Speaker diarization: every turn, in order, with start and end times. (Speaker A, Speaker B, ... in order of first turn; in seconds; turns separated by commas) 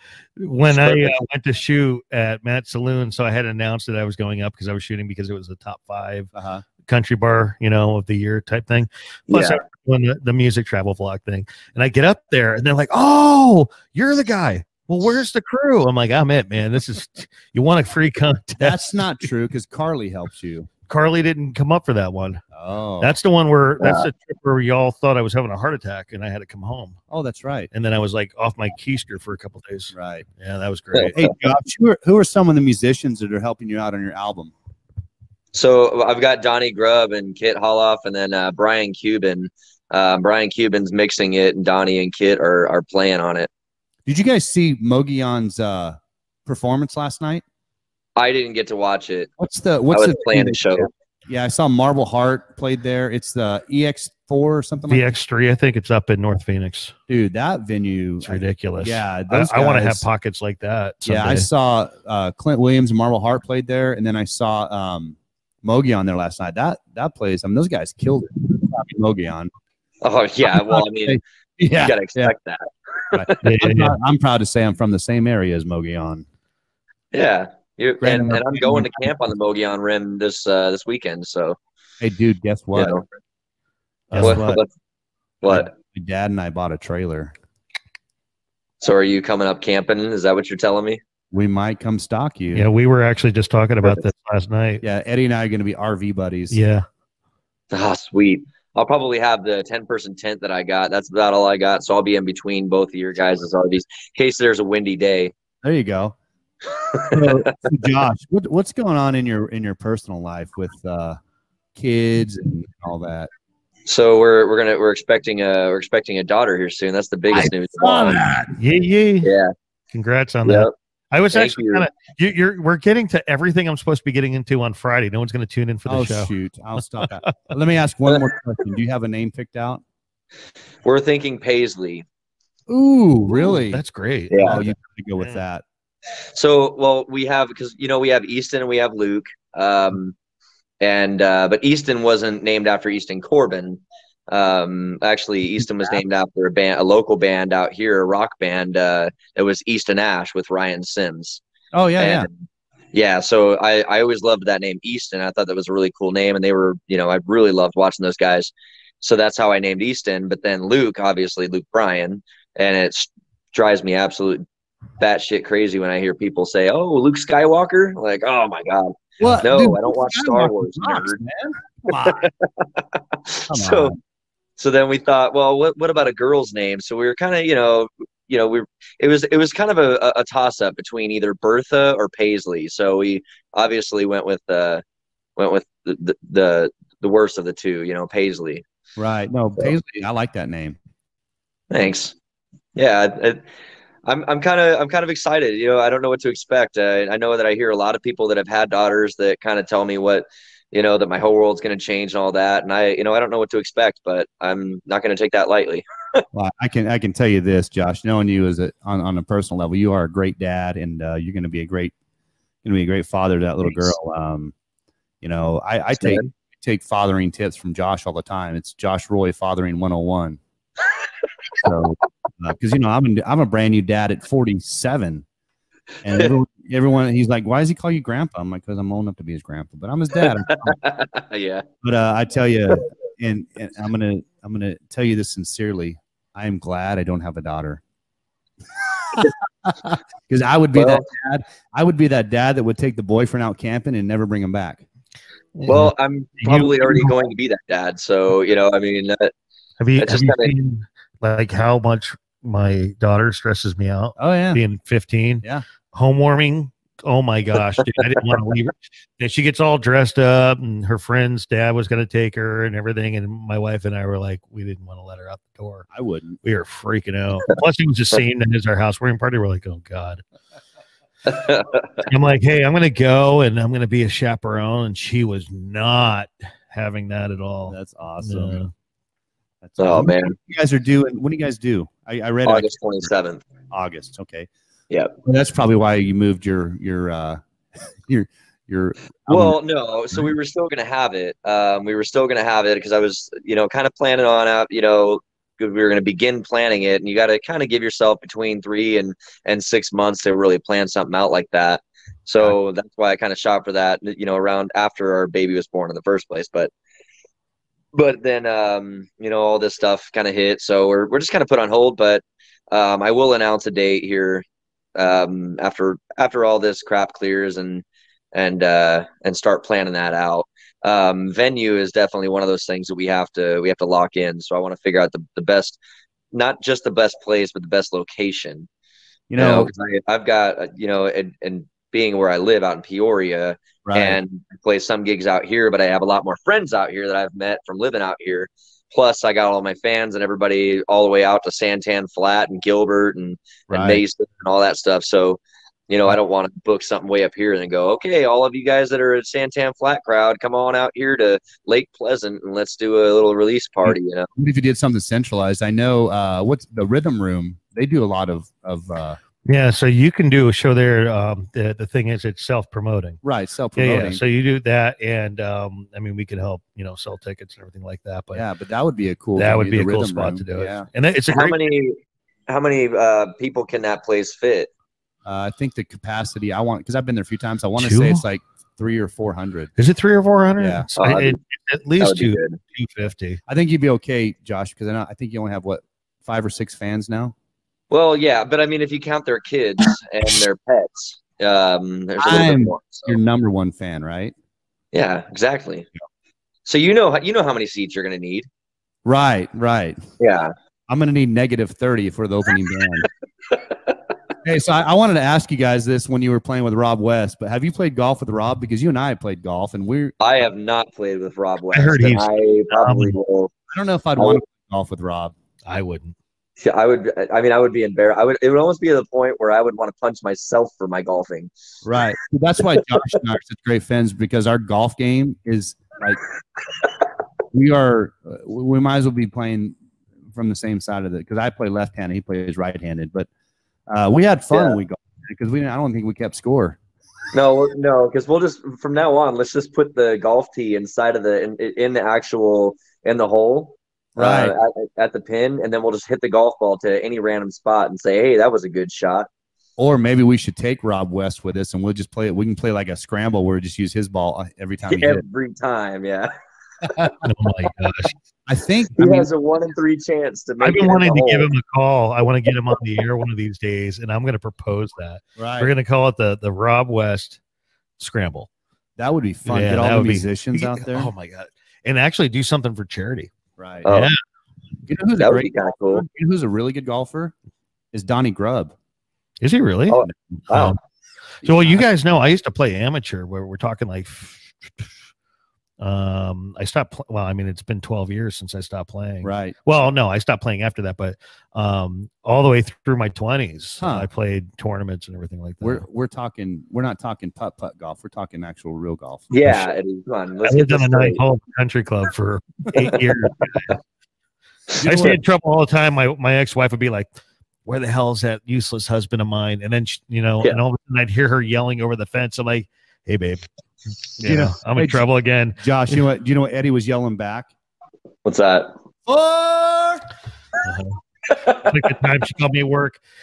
Speaker A: 0.3-6.3, Speaker B: 0.7-1.1, Speaker C: 6.3-6.6, Speaker A: 6.8-19.1, Speaker B: 9.3-9.6, Speaker C: 18.6-20.7, Speaker A: 20.9-22.4, Speaker C: 22.5-23.1, Speaker A: 23.0-27.0, Speaker C: 27.1-27.7, Speaker A: 27.7-31.1, Speaker C: 29.9-30.2, Speaker C: 31.1-34.5, Speaker B: 35.5-43.5, Speaker C: 44.1-47.4, Speaker B: 48.1-49.3, Speaker C: 49.4-55.1, Speaker B: 49.9-50.9, Speaker A: 54.9-56.9, Speaker C: 57.1-60.0, Speaker A: 58.2-61.5, Speaker C: 61.0-69.5, Speaker B: 70.0-71.2, Speaker C: 70.5-72.3, Speaker B: 71.8-73.4, Speaker C: 73.1-76.2, Speaker A: 73.4-74.0, Speaker B: 77.1-81.6, Speaker C: 78.0-79.1, Speaker C: 82.0-83.0, Speaker B: 82.7-83.0, Speaker A: 84.1-84.4, Speaker C: 84.1-84.6, Speaker B: 84.2-84.7, Speaker B: 85.4-85.7, Speaker C: 85.5-87.3, Speaker B: 88.8-91.0, Speaker C: 91.3-92.7, Speaker A: 92.5-94.8, Speaker C: 94.8-96.6, Speaker A: 96.5-96.8, Speaker B: 97.7-105.3, Speaker C: 105.6-106.2, Speaker B: 106.9-107.5, Speaker C: 107.0-111.2, Speaker C: 111.7-113.3, Speaker B: 113.8-118.2, Speaker C: 117.3-118.5, Speaker A: 118.6-119.3, Speaker B: 119.2-119.5, Speaker A: 119.9-126.3, Speaker B: 120.4-120.7, Speaker B: 121.3-121.8, Speaker C: 125.9-129.8, Speaker A: 127.0-127.5, Speaker B: 130.8-132.0, Speaker C: 132.7-133.8, Speaker A: 133.4-135.4, Speaker B: 134.3-134.6, Speaker C: 134.4-135.6, Speaker B: 136.3-140.1, Speaker B: 140.8-151.4, Speaker C: 151.7-152.3, Speaker B: 152.0-152.3, Speaker B: 152.9-164.4, Speaker B: 165.0-171.2, Speaker C: 169.2-172.3, Speaker B: 171.9-173.9, Speaker C: 173.5-174.0, Speaker B: 174.6-184.8, Speaker B: 185.4-188.6, Speaker C: 189.0-190.8, Speaker B: 191.7-192.1, Speaker B: 192.8-193.4, Speaker B: 194.1-206.2, Speaker C: 206.3-211.9, Speaker C: 212.6-214.5, Speaker B: 213.7-213.9, Speaker C: 215.2-220.4, Speaker B: 216.0-216.3, Speaker C: 221.6-225.2, Speaker C: 226.0-230.8, Speaker B: 230.2-231.6, Speaker C: 231.8-237.8, Speaker C: 239.0-244.8, Speaker B: 240.7-241.0, Speaker A: 245.6-247.2, Speaker B: 245.7-249.3, Speaker A: 249.8-265.9, Speaker B: 250.0-250.5, Speaker C: 254.2-254.6, Speaker C: 265.9-266.4, Speaker A: 266.4-270.2, Speaker B: 271.3-272.1, Speaker A: 272.0-278.7, Speaker C: 277.7-278.6, Speaker C: 279.6-282.7, Speaker B: 279.8-280.4, Speaker B: 282.4-283.4, Speaker C: 283.7-284.5, Speaker B: 284.9-285.1, Speaker C: 285.2-287.4, Speaker C: 288.0-289.6, Speaker B: 289.3-306.7, Speaker B: 307.9-314.4, Speaker B: 314.9-325.8, Speaker B: 326.3-328.7, Speaker C: 329.3-329.7, Speaker B: 329.4-354.3, Speaker C: 333.8-334.2, Speaker C: 343.7-344.0, Speaker C: 353.8-359.2, Speaker A: 359.4-363.2, Speaker C: 363.2-364.2, Speaker A: 363.8-368.4, Speaker C: 368.3-370.9, Speaker A: 369.4-371.6, Speaker B: 371.3-372.0, Speaker B: 372.5-374.7, Speaker C: 375.2-379.7, Speaker A: 377.8-378.2, Speaker A: 379.8-383.4, Speaker C: 380.6-380.9, Speaker B: 381.0-381.4, Speaker B: 382.0-382.6, Speaker C: 383.5-387.3, Speaker B: 387.9-393.2, Speaker C: 392.2-394.3, Speaker B: 394.9-395.9, Speaker B: 396.6-398.5, Speaker C: 399.0-400.0, Speaker B: 400.2-400.5, Speaker C: 400.9-403.1, Speaker B: 403.5-403.9, Speaker C: 404.4-410.1, Speaker B: 410.2-413.5, Speaker A: 411.7-413.2, Speaker C: 413.7-415.3, Speaker A: 415.6-416.1, Speaker B: 416.6-421.5, Speaker C: 421.8-426.2, Speaker C: 427.5-429.8, Speaker C: 430.3-433.3, Speaker C: 433.9-436.8, Speaker B: 434.5-434.8, Speaker B: 437.3-449.3, Speaker C: 444.1-444.5, Speaker C: 449.8-455.2, Speaker B: 454.9-456.3, Speaker C: 456.9-457.1, Speaker A: 457.2-458.1, Speaker C: 458.5-459.3, Speaker B: 459.0-461.5, Speaker A: 460.6-467.4, Speaker C: 465.4-465.7, Speaker A: 468.0-468.5, Speaker C: 469.0-471.1, Speaker A: 469.5-473.3, Speaker C: 473.6-473.9, Speaker B: 473.8-474.1, Speaker A: 473.9-474.1, Speaker C: 474.9-477.3, Speaker B: 475.2-476.1, Speaker C: 477.9-478.7, Speaker A: 479.4-480.8, Speaker B: 479.9-480.8, Speaker A: 481.4-484.9, Speaker C: 481.4-481.8, Speaker A: 485.8-495.8, Speaker C: 489.2-489.6, Speaker C: 493.8-494.1, Speaker C: 495.6-499.7, Speaker B: 499.3-501.2, Speaker A: 500.4-503.7, Speaker C: 504.8-505.2, Speaker A: 504.8-507.1, Speaker A: 507.6-513.4, Speaker A: 514.2-516.0, Speaker C: 514.2-515.0, Speaker C: 515.6-517.5, Speaker B: 518.2-518.8, Speaker C: 519.0-520.0, Speaker A: 520.6-521.0, Speaker B: 521.3-521.7, Speaker A: 521.6-523.0